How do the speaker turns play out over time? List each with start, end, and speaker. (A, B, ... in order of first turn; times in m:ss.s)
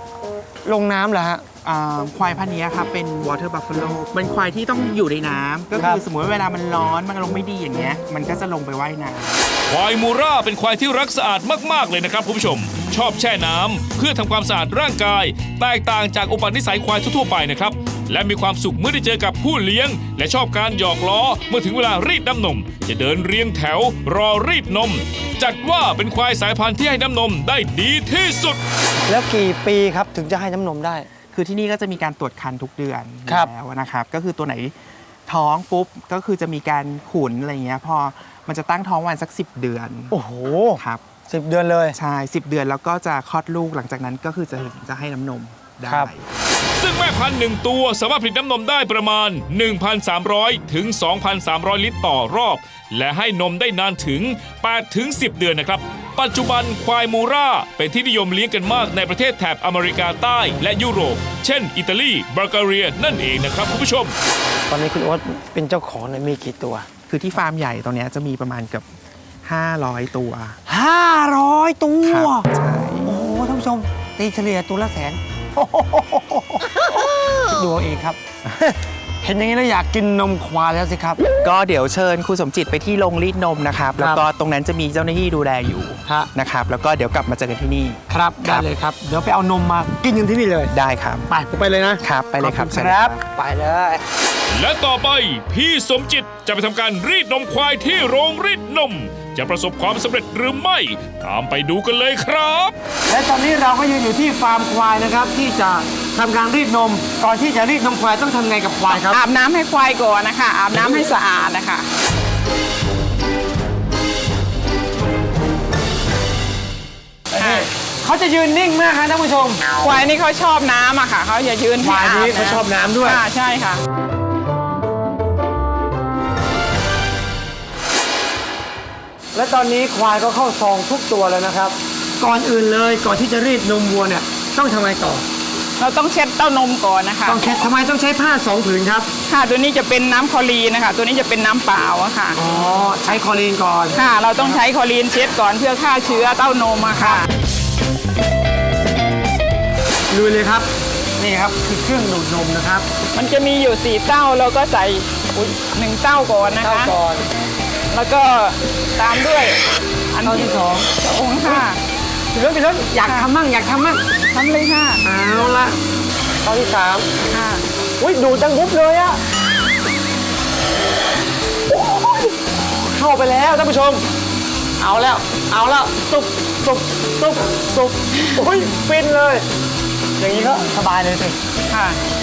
0:00.6-0:01.4 A
0:01.6-0:09.4 B
0:05.7-0:06.0 A
0:09.7-0:28.6 C
0:29.0-0:31.1 A
0:31.3-0:34.7 B
0:33.2-0:33.5 A
0:35.3-0:40.1 B
0:40.1-0:42.0 A
0:40.8-0:41.0 B
0:41.9-0:46.2 B
0:45.8-0:46.1 A
0:46.8-1:04.2 C
1:04.7-1:06.8 A
1:07.1-1:08.9 B
1:09.4-1:10.6 B
1:10.7-1:12.5 A
1:12.0-1:13.2 B
1:13.0-1:16.9 A
1:17.4-1:21.2 A
1:21.4-1:28.7 B
1:24.0-1:24.2 A
1:26.0-1:26.3 A
1:28.1-1:30.7 A
1:30.7-1:31.3 B
1:31.3-1:34.0 A
1:32.0-1:33.2 B
1:34.5-1:42.7 C
1:43.1-1:49.2 A
1:48.9-1:51.9 D
1:57.3-1:59.6 A
1:57.4-1:57.7 D
1:59.8-2:03.8 D
2:01.8-2:03.2 A
2:09.3-2:15.2 A
2:15.8-2:17.4 D
2:17.2-2:19.1 A
2:19.3-2:22.4 D
2:22.3-2:24.6 A
2:23.9-2:27.3 D
2:27.0-2:27.2 A
2:30.1-2:32.8 A
2:33.1-2:36.9 D
2:36.6-2:37.2 A
2:37.9-2:39.6 D
2:40.1-2:41.8 D
2:40.2-2:40.9 A
2:42.3-2:44.0 A
2:44.3-2:45.0 D
2:45.0-2:45.8 A
2:46.4-2:47.1 A
2:47.3-2:47.6 D
2:48.0-2:49.2 A
2:52.8-2:54.0 A
2:54.8-2:59.4 A
3:00.2-3:01.4 A
3:01.7-3:02.0 D